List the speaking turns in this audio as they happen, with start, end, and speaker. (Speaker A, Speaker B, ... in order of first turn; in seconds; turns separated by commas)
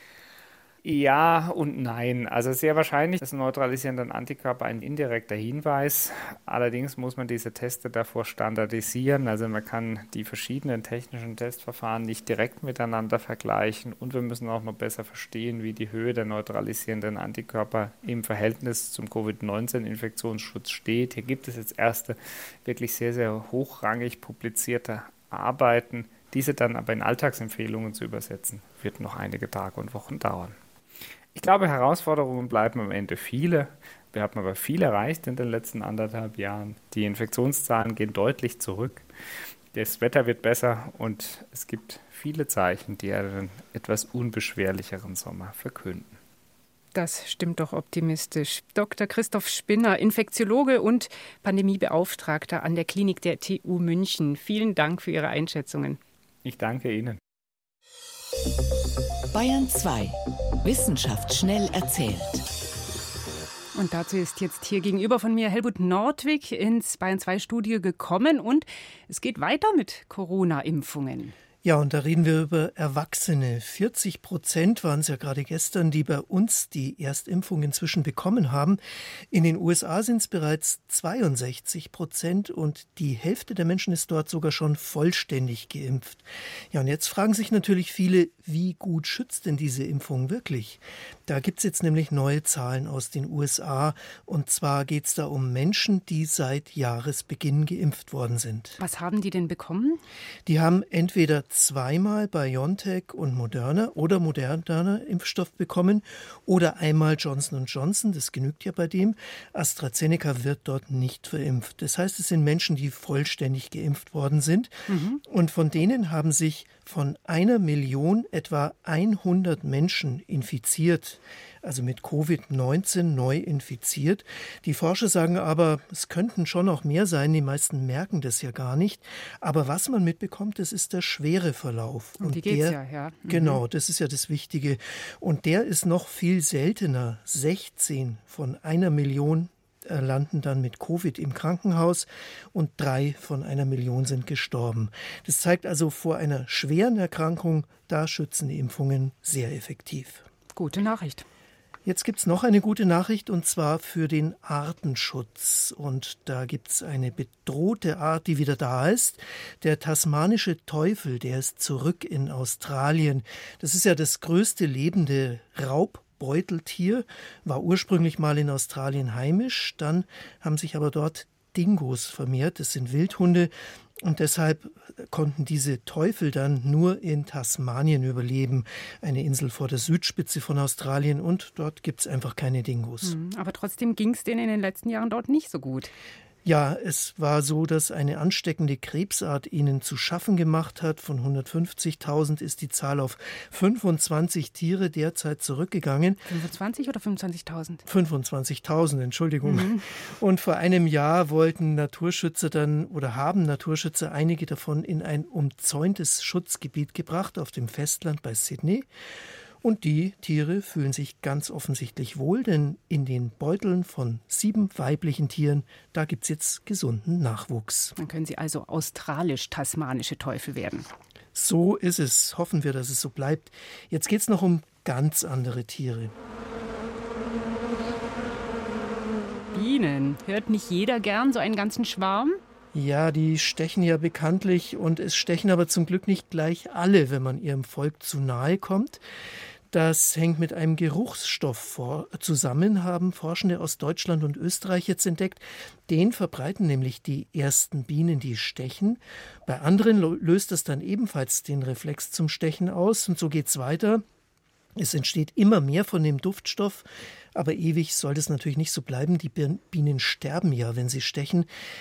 Speaker A: 0.8-30.6, Speaker A: 31.4-39.0, Speaker A: 39.7-46.2, Speaker B: 47.0-56.0, Speaker A: 56.5-57.2, Speaker C: 59.3-62.5, Speaker B: 63.7-71.3, Speaker D: 71.6-98.8, Speaker B: 98.8-100.0, Speaker D: 100.5-114.7, Speaker B: 114.9-115.2, Speaker D: 115.3-150.3, Speaker B: 132.2-133.6, Speaker B: 150.6-151.2, Speaker D: 151.9-183.2, Speaker B: 183.0-185.9, Speaker D: 186.4-196.2, Speaker B: 196.3-197.8, Speaker D: 197.9-208.9, Speaker B: 199.4-199.8, Speaker D: 209.6-217.9, Speaker B: 218.0-220.9, Speaker D: 221.3-226.2, Speaker B: 229.5-232.4, Speaker D: 232.7-239.0, Speaker D: 239.7-254.0, Speaker D: 254.8-261.5